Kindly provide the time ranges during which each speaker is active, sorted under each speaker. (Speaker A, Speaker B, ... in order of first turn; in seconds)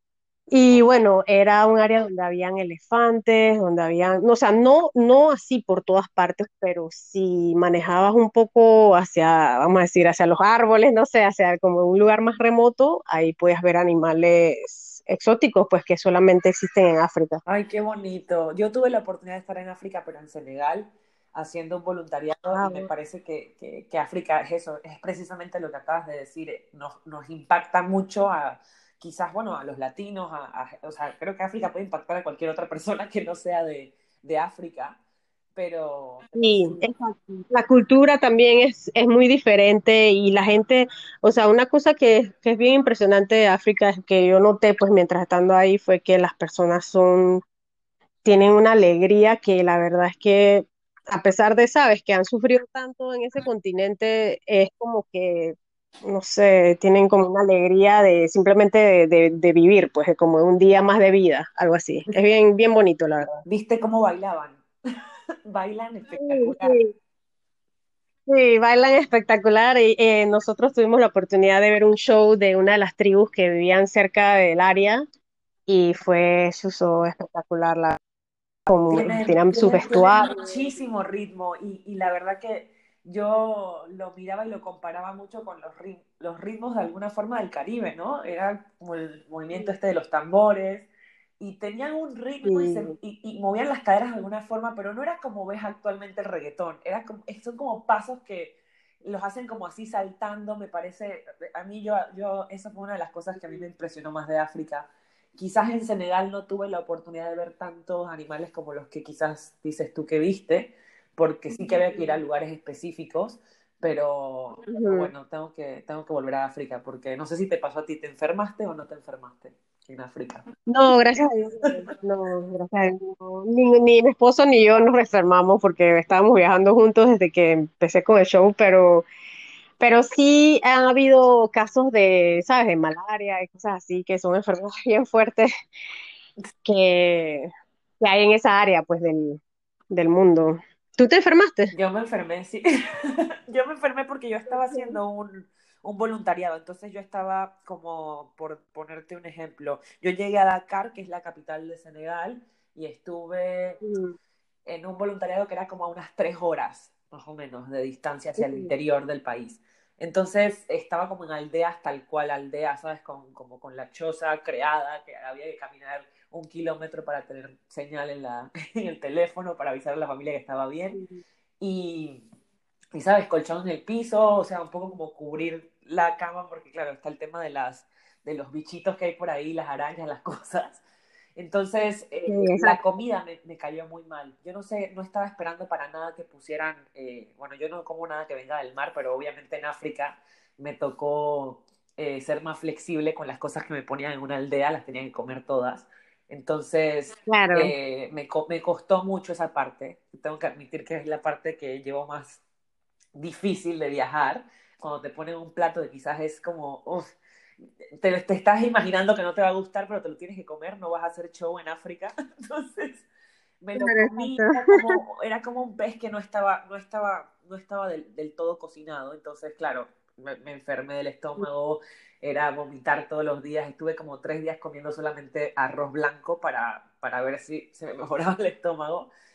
Speaker A: 0.5-17.4, 22.6-22.9, 36.4-47.4, 48.2-63.4, 66.2-66.9, 68.3-75.0, 75.7-78.0, 78.7-80.7, 92.4-92.9, 111.5-112.1, 114.7-115.1, 120.7-129.1, 129.8-135.5, 136.7-141.7, 144.5-145.0, 153.8-154.2, 158.4-158.7, 170.9-171.2, 182.3-182.8, 197.3-197.7, 213.8-215.0
Speaker B: 17.5-35.0, 35.6-36.9, 63.4-64.6, 65.5-66.8, 78.9-90.9, 91.4-120.5, 141.7-153.8, 154.7-171.0, 171.6-172.2, 172.9-180.8, 181.4-202.4, 203.2-207.1, 207.9-213.1, 213.6-229.1